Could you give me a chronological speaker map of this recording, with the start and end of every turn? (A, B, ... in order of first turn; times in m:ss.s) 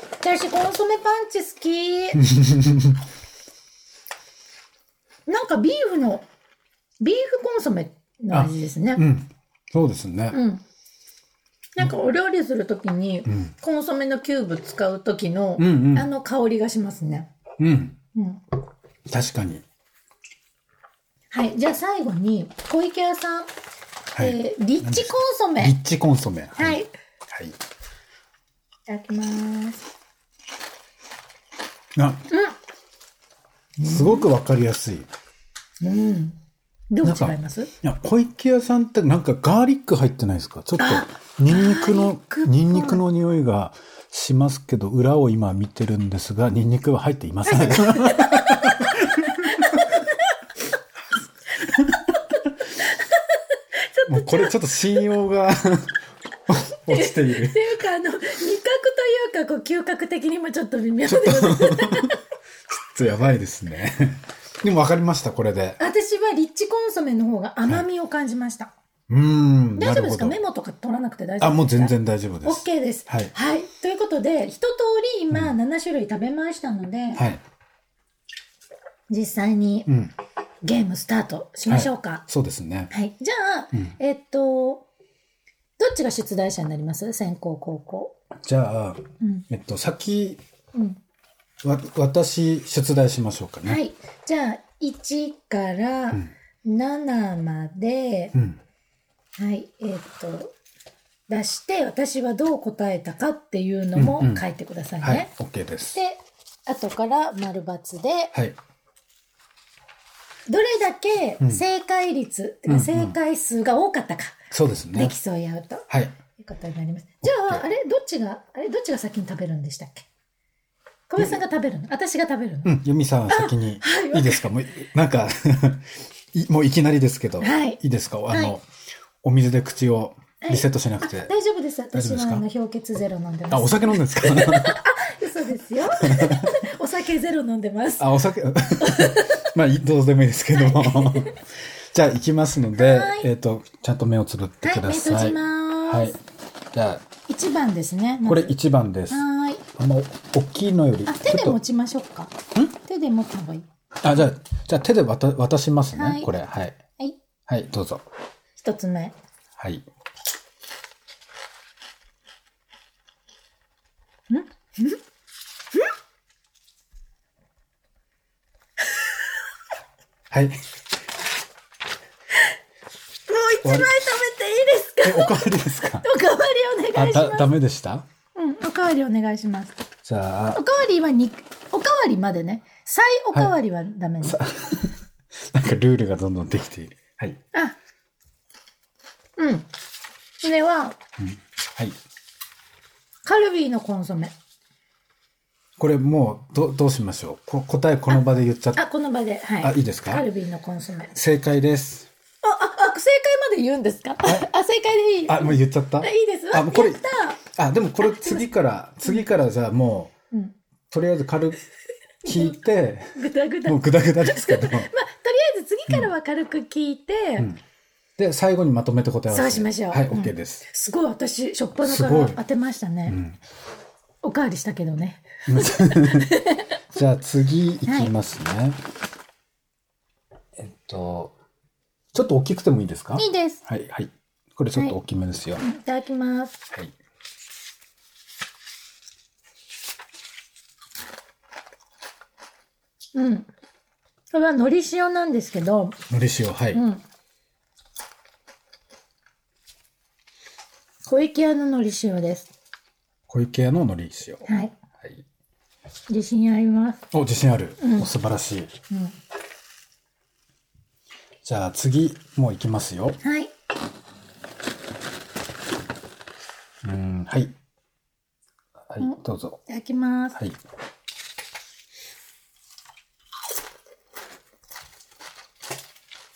0:00.2-0:02.3 A
0:02.1-0:03.0 B
0:05.3-0:06.3 A
0:07.0-0:09.0 A
0:08.3-0:10.4 B
0:10.3-0:10.6 A
0:11.8-0:17.3 A
0:15.6-0:16.1 B
0:17.6-0:18.0 B
0:18.2-0:18.4 A
0:19.1-0:19.6 B
0:21.3-0:23.5 A
0:24.2-0:27.6 B
0:24.2-0:25.8 A
0:26.6-0:26.9 A
0:28.9-0:29.9 A
0:32.0-0:32.2 B
0:32.3-0:32.6 A
0:33.8-0:35.1 B
0:33.8-0:34.3 A
0:35.8-0:36.4 A
0:36.9-0:37.7 A
0:37.0-0:49.8 B
0:40.8-0:43.0 A
0:47.4-0:50.3 A
0:51.6-0:54.5 A
0:51.6-0:52.0 B
0:54.1-0:57.7 B
0:56.9-1:02.2 A
1:01.1-1:02.2 B
1:02.9-1:05.8 B
1:05.8-1:08.7 A
1:09.1-1:10.4 B
1:09.8-1:17.2 A
1:11.4-1:13.3 B
1:17.2-1:17.4 B
1:19.1-1:19.9 A
1:19.9-1:20.1 B
1:20.6-1:22.2 A
1:21.7-1:22.9 B
1:22.9-1:24.9 A
1:25.8-1:28.2 A
1:28.4-1:30.4 B
1:29.2-1:29.5 A
1:31.6-1:33.8 B
1:33.6-1:38.4 A
1:38.3-1:38.6 B
1:39.4-1:40.5 A
1:41.3-1:45.3 A
1:44.0-1:44.4 B
1:45.0-1:46.0 B
1:45.9-1:48.4 A
1:50.5-2:00.1 A
1:52.7-1:53.2 B
1:54.5-1:55.2 B
1:55.9-1:56.2 B
1:57.2-1:57.6 B
2:01.1-2:04.4 A
2:02.6-2:08.6 B
2:07.4-2:08.6 A
2:09.2-2:11.3 B
2:10.4-2:18.1 A
2:11.9-2:12.4 B
2:13.5-2:14.8 B
2:16.0-2:16.5 B
2:18.0-2:21.4 B
2:18.8-2:19.5 A
2:20.6-2:21.4 A
2:21.9-2:26.2 B
2:22.8-2:23.3 A
2:24.6-2:26.2 A
2:26.7-2:27.0 B
2:27.3-2:28.6 A
2:28.2-2:31.6 B
2:29.1-2:29.6 A
2:31.1-2:33.7 A
2:34.0-2:36.8 B
2:35.9-2:36.3 A
2:37.5-2:38.0 B
2:38.6-2:39.2 A
2:39.6-2:39.8 B
2:44.3-2:45.0 A
2:50.3-2:50.6 B
2:53.3-2:55.5 A
2:53.6-2:54.0 B
2:55.0-2:56.1 B
2:56.0-2:57.5 A
2:56.9-2:58.1 B
2:58.4-2:59.8 A
3:00.0-3:00.6 B
3:00.5-3:04.4 A
3:04.2-3:05.0 B
3:05.5-3:07.4 B
3:09.4-3:09.7 A
3:10.4-3:11.0 A
3:11.2-3:12.0 B
3:13.2-3:14.3 A
3:15.8-3:18.8 B
3:18.8-3:21.1 A
3:19.6-3:20.3 B
3:21.1-3:22.1 B
3:22.4-3:27.4 A
3:25.3-3:30.1 B
3:28.0-3:28.5 A
3:30.9-3:31.6 B
3:32.2-3:32.5 A
3:32.2-3:34.9 B
3:33.2-3:37.5 A
3:38.2-3:40.6 B
3:39.3-3:43.2 A
3:41.8-3:42.4 B
3:43.1-3:43.4 B
3:44.2-3:46.7 A
3:45.5-3:46.4 B
3:46.9-3:48.8 B
3:47.9-3:48.1 A
3:50.6-3:51.4 B
3:52.1-3:55.6 B
3:53.2-3:53.6 A
3:55.6-3:56.6 A
4:03.2-4:03.5 A
4:04.3-4:06.0 A
4:06.1-4:06.8 B
4:06.7-4:07.0 A
4:11.0-4:12.5 A
4:13.3-4:14.5 B
4:14.4-4:14.7 A
4:16.1-4:17.1 A
4:17.1-4:18.7 B
4:17.8-4:18.1 A
4:18.9-4:19.2 A
4:21.4-4:23.2 B
4:23.2-4:23.5 A
4:26.8-4:27.6 B
4:28.9-4:29.6 B
4:29.0-4:30.4 A